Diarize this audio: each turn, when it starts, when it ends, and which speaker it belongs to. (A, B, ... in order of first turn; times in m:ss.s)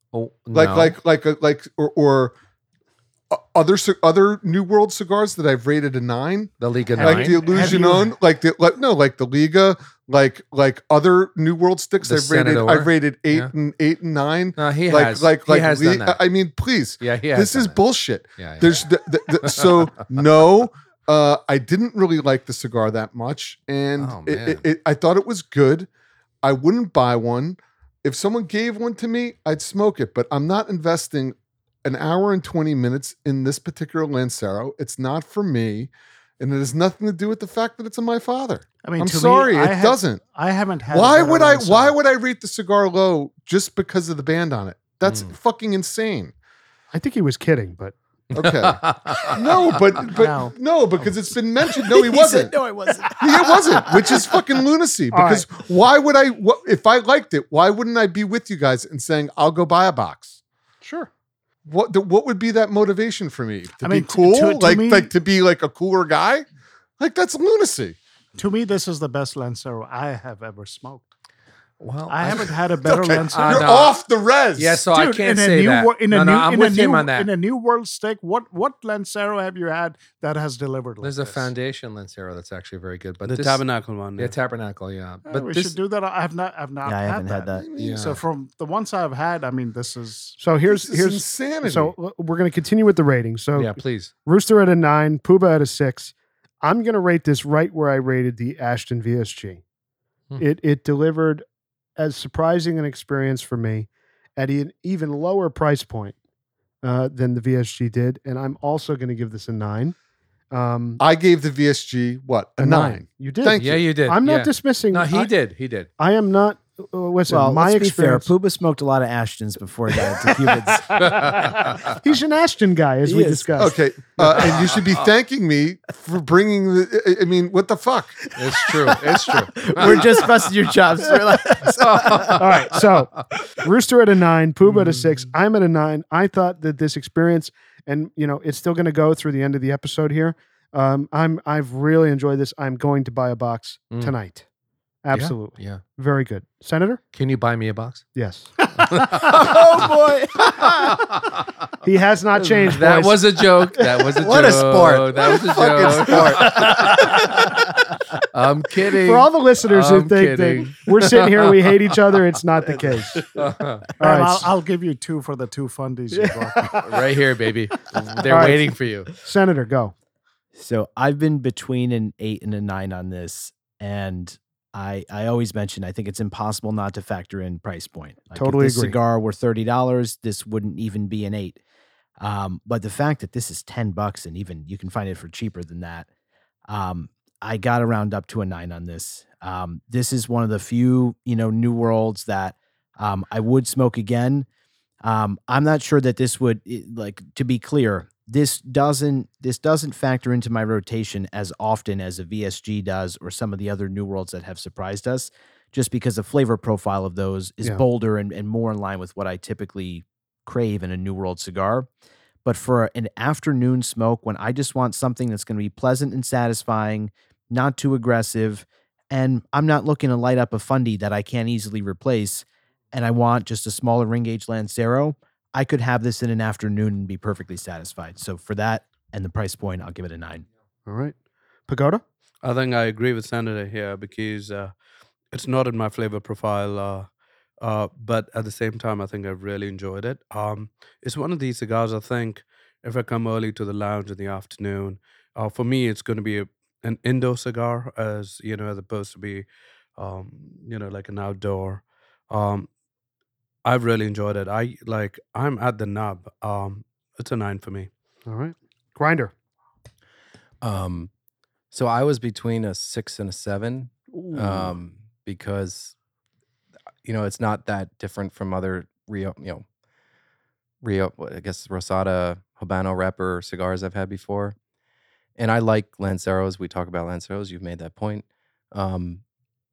0:00.1-0:01.0 A
0:00.5-0:02.4 B
0:03.3-0:25.9 B
0:06.6-0:07.8 A
0:06.9-0:08.1 C
0:12.0-0:13.5 A
0:14.6-0:16.2 A
0:17.0-0:17.8 A
0:18.4-0:19.7 A
0:24.0-0:24.6 A
0:26.4-0:40.2 B
0:38.8-0:42.0 C
0:40.9-0:46.3 B
0:45.0-0:45.3 A
0:46.9-0:47.9 D
0:48.3-0:49.8 A
0:48.3-0:52.6 B
0:50.1-0:50.5 C
0:51.8-0:54.4 E
0:53.2-1:00.4 B
0:55.1-0:55.5 D
1:01.6-1:06.4 B
1:03.8-1:05.1 C
1:07.0-1:08.0 B
1:08.3-1:11.0 C
1:11.8-1:14.0 A
1:12.1-1:13.8 C
1:12.8-1:14.8 B
1:14.6-1:17.3 A
1:14.9-1:21.5 C
1:21.0-1:23.6 A
1:23.2-1:24.4 F
1:24.2-1:25.8 A
1:25.2-1:30.4 C
1:26.8-1:27.6 E
1:27.6-1:28.2 B
1:27.8-1:28.1 A
1:30.4-1:39.6 D
1:30.6-1:32.0 B
1:33.5-1:34.1 A
1:40.4-1:41.4 D
1:42.0-1:46.1 D
1:46.8-1:50.0 D
1:50.5-1:51.0 D
1:51.0-1:53.8 B
1:52.6-1:55.3 D
1:53.5-1:55.9 A
1:56.0-1:58.3 D
1:57.3-2:01.5 E
2:00.9-2:03.8 D
2:01.0-2:02.0 A
2:03.0-2:03.6 E
2:03.6-2:08.2 B
2:04.3-2:04.9 A
2:08.4-2:10.2 A
2:09.0-2:12.3 E
2:11.7-2:13.2 A
2:12.0-2:24.4 D
2:25.0-2:27.0 D
2:25.1-2:25.8 A
2:27.1-2:28.0 A
2:28.1-2:29.1 D
2:28.9-2:29.9 A
2:29.1-2:30.9 E
2:30.6-2:31.4 A
2:31.8-2:34.2 D
2:32.4-2:37.5 A
2:34.2-2:36.8 B
2:38.3-2:41.7 A
2:39.0-2:43.3 D
2:43.2-2:44.0 A
2:44.0-2:46.8 C
2:44.0-2:44.5 D
2:46.1-2:46.8 D
2:46.7-2:49.1 A
2:48.2-2:49.9 D
2:50.5-3:01.6 E
2:58.3-2:59.0 D
3:02.2-3:06.1 E
3:06.7-3:14.4 E
3:15.0-3:31.9 E
3:32.4-3:50.4 E
3:50.8-3:51.1 D
3:51.7-3:52.0 D
3:52.4-3:54.7 F
3:55.3-3:57.1 F
3:57.6-4:12.7 F
4:13.6-4:17.9 F
4:18.3-4:19.3 D
4:20.6-4:21.1 G
4:21.7-4:25.9 G
4:24.1-4:24.7 D
4:27.0-4:29.6 G
4:30.8-4:34.5 G
4:35.4-4:39.2 G